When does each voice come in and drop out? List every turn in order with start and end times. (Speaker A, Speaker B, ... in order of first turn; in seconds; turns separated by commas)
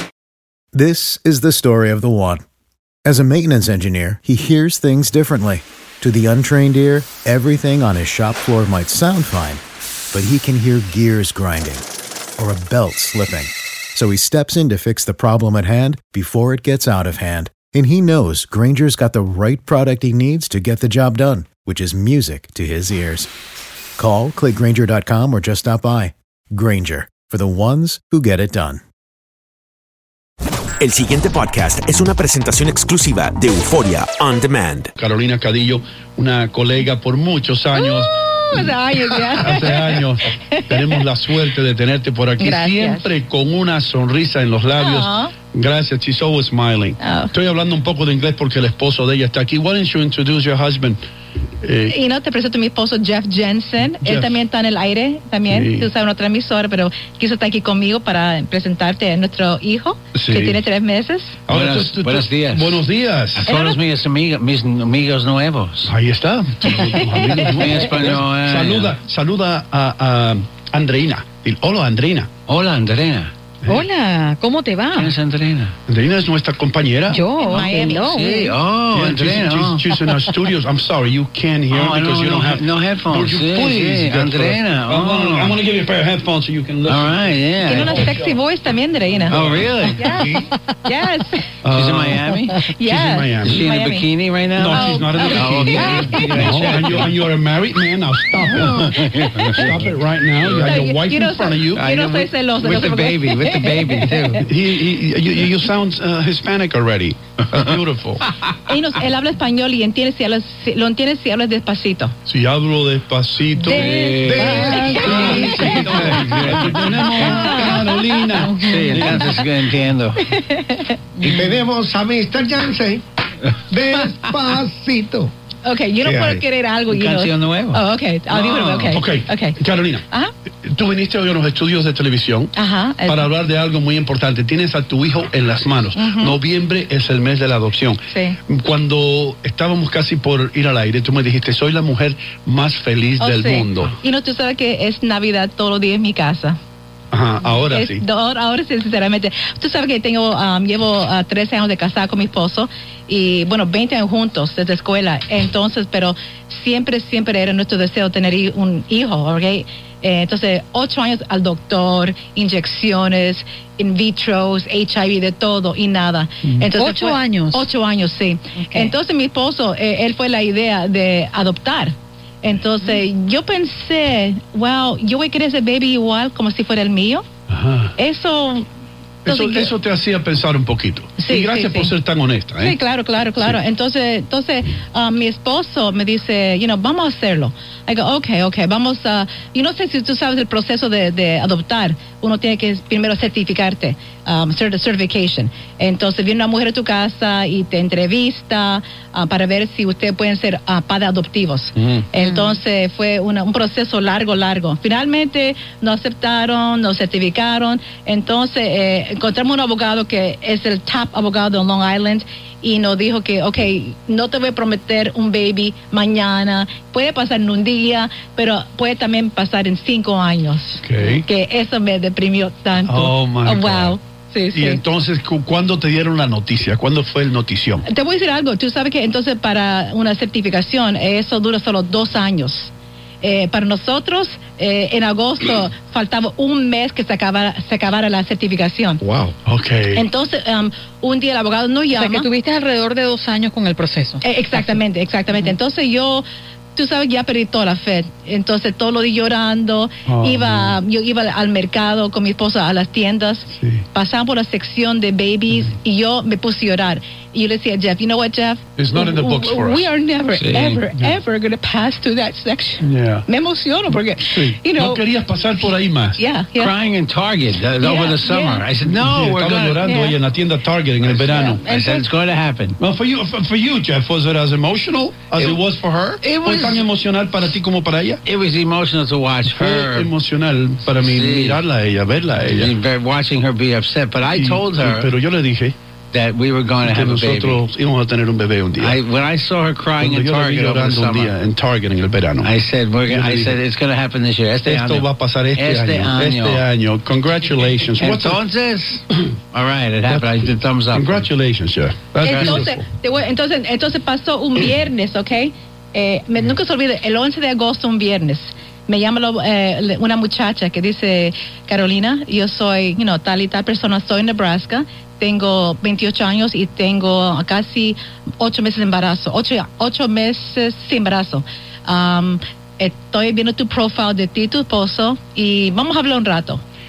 Speaker A: 0.7-2.4, Speaker A: 3.0-9.6, Speaker A: 10.1-11.8, Speaker A: 12.4-23.3, Speaker A: 24.0-28.8, Speaker B: 30.8-34.9, Speaker C: 35.0-38.7, Speaker D: 37.7-41.1, Speaker C: 39.4-51.0, Speaker D: 42.4-43.1, Speaker D: 44.8-45.4, Speaker D: 47.0-47.4, Speaker C: 51.6-51.9, Speaker D: 51.9-61.5, Speaker C: 54.0-54.4, Speaker C: 55.5-55.9, Speaker C: 60.1-60.6, Speaker E: 61.5-62.8, Speaker C: 61.5-63.5, Speaker E: 63.3-65.9, Speaker D: 63.5-63.8, Speaker C: 65.8-72.3, Speaker D: 67.0-67.7, Speaker E: 67.2-69.0, Speaker E: 72.5-73.3, Speaker F: 73.7-75.2, Speaker E: 75.0-75.8, Speaker C: 75.9-77.2, Speaker F: 77.1-78.6, Speaker D: 77.3-78.0, Speaker E: 77.5-80.1, Speaker C: 78.9-88.3, Speaker E: 81.7-85.6, Speaker E: 86.9-88.1, Speaker D: 87.6-89.4, Speaker E: 89.3-90.2, Speaker C: 89.3-90.0, Speaker D: 89.9-91.6, Speaker G: 90.1-90.5, Speaker C: 91.6-93.6, Speaker E: 91.7-92.7, Speaker D: 92.6-94.1, Speaker E: 93.5-97.2, Speaker C: 94.5-101.8, Speaker D: 94.7-96.4, Speaker E: 98.7-99.7, Speaker D: 99.3-99.7, Speaker E: 100.4-100.8, Speaker D: 100.5-104.3, Speaker E: 101.8-104.5, Speaker C: 104.4-108.3, Speaker D: 108.7-112.1, Speaker C: 112.3-114.2, Speaker E: 113.6-117.7, Speaker G: 114.1-116.4, Speaker A: 114.3-114.7, Speaker D: 114.7-116.0, Speaker C: 115.1-119.2, Speaker D: 117.1-118.5, Speaker E: 118.5-120.2, Speaker D: 120.2-121.1, Speaker G: 121.2-125.3, Speaker D: 125.6-130.3, Speaker G: 126.0-126.4, Speaker E: 126.9-129.0, Speaker C: 128.9-130.0, Speaker C: 130.7-132.5, Speaker D: 132.5-133.3, Speaker C: 133.1-143.9, Speaker D: 135.9-136.4, Speaker D: 138.1-138.4, Speaker D: 143.2-146.6, Speaker C: 147.1-148.0, Speaker D: 147.7-177.3, Speaker F: 166.6-167.7, Speaker F: 168.6-168.9, Speaker C: 177.5-177.9, Speaker D: 178.0-178.7, Speaker D: 179.2-179.7, Speaker C: 179.2-182.8, Speaker D: 181.2-181.9, Speaker D: 182.6-224.8, Speaker C: 220.8-221.2, Speaker C: 222.8-224.0, Speaker C: 224.5-227.8, Speaker D: 227.8-239.0, Speaker G: 239.0-239.3, Speaker C: 239.4-240.0, Speaker D: 239.9-242.3, Speaker F: 241.9-244.2, Speaker D: 244.2-266.8, Speaker C: 250.1-250.8, Speaker C: 253.6-253.8, Speaker C: 258.8-259.9, Speaker E: 260.3-260.8, Speaker C: 262.8-263.2, Speaker C: 264.3-266.2, Speaker E: 266.6-270.0, Speaker D: 267.8-268.7, Speaker C: 268.8-271.6, Speaker D: 269.9-270.1, Speaker D: 271.1-272.1, Speaker E: 271.7-272.8, Speaker C: 272.8-278.2, Speaker E: 276.2-276.8, Speaker E: 278.3-280.1, Speaker C: 279.5-282.7, Speaker E: 281.0-281.6, Speaker E: 282.5-285.1, Speaker C: 284.3-285.8, Speaker E: 286.1-287.6, Speaker C: 286.8-289.0, Speaker E: 288.8-291.4, Speaker C: 290.0-292.5, Speaker E: 292.4-296.6, Speaker C: 293.1-293.6, Speaker C: 294.6-298.4, Speaker E: 298.0-301.3, Speaker C: 300.1-300.4, Speaker C: 300.9-302.8, Speaker D: 302.2-326.6